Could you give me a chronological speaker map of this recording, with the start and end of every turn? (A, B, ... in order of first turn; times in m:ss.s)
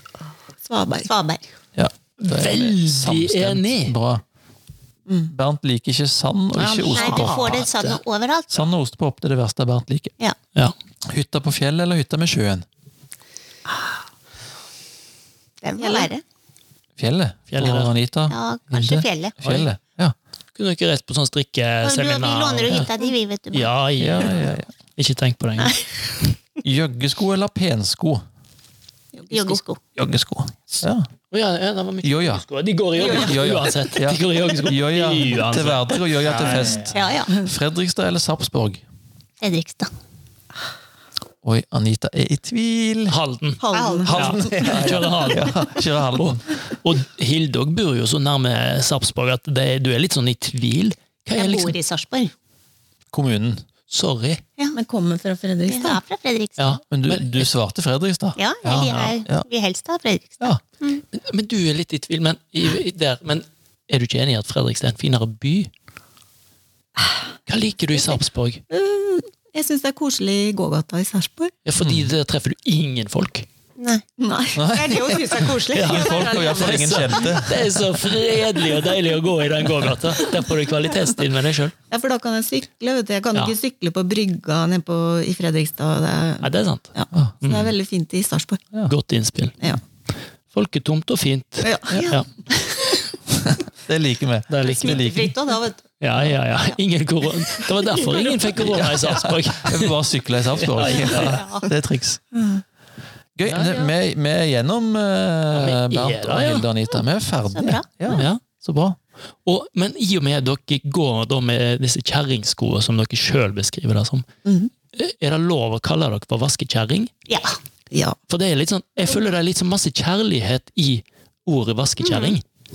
0:00.6-0:01.1 A
0:01.0-0:01.4 B
0:01.8-0:04.2 C
0:02.2-0:03.9 D
0:05.3-0:07.5 C
0:06.6-0:08.0 D
0:06.9-0:08.6 B
0:08.5-0:10.1 C
0:11.1-0:12.6 C
0:15.6-0:16.2 B
0:15.8-0:16.1 A
0:17.0-0:20.1 C
0:17.5-0:17.9 D
0:18.3-0:19.4 B
0:20.6-0:22.9 D
0:21.8-0:23.8 B
0:23.5-0:24.4 D
0:24.0-0:24.7 C
0:25.0-0:25.9 D
0:26.6-0:28.2 C
0:29.1-0:29.6 A
0:29.3-0:29.8 B
0:30.0-0:31.1 C
0:31.3-0:37.2 D
0:32.0-0:32.4 C
0:33.0-0:38.8 C
0:36.8-0:37.4 B
0:39.4-0:39.9 B
0:41.4-0:43.2 C
0:43.1-0:43.6 D
0:43.6-0:44.9 A
0:43.7-0:44.4 B
0:44.0-0:46.4 C
0:44.1-0:51.8 D
0:51.4-0:52.3 B
0:53.1-0:53.6 C
0:53.9-0:54.4 D
0:54.7-0:56.0 A
0:55.7-0:56.8 B
0:56.6-0:57.4 D
0:56.8-0:59.4 C
0:58.4-1:01.0 B
0:58.7-0:59.2 D
1:01.1-1:05.7 D
1:07.5-1:08.6 D
1:08.7-1:11.5 A
1:11.6-1:13.5 D
1:11.8-1:12.1 C
1:13.8-1:14.0 B
1:14.2-1:14.7 A
1:14.5-1:17.8 C
1:14.7-1:17.2 B
1:15.7-1:21.7 D
1:21.9-1:28.6 A
1:26.4-1:27.7 D
1:28.8-1:29.6 D
1:30.5-1:32.2 D
1:31.6-1:32.0 A
1:32.0-1:32.2 B
1:33.4-1:35.3 C
1:34.5-1:35.1 D
1:34.6-1:35.8 B
1:36.0-1:40.0 D
1:38.0-1:38.3 B
1:38.6-1:42.2 C
1:40.5-1:41.4 D
1:40.8-1:41.7 B
1:42.3-1:42.6 A
1:43.4-1:49.0 C
1:43.5-1:43.9 D
1:45.5-1:46.6 D
1:47.5-1:47.8 B
1:48.1-1:48.4 D
1:49.4-1:54.3 D
1:54.4-1:54.7 A
1:54.9-1:57.1 D
1:57.3-1:57.5 B
1:57.9-1:58.2 A
1:58.3-2:02.4 D
2:02.0-2:02.4 B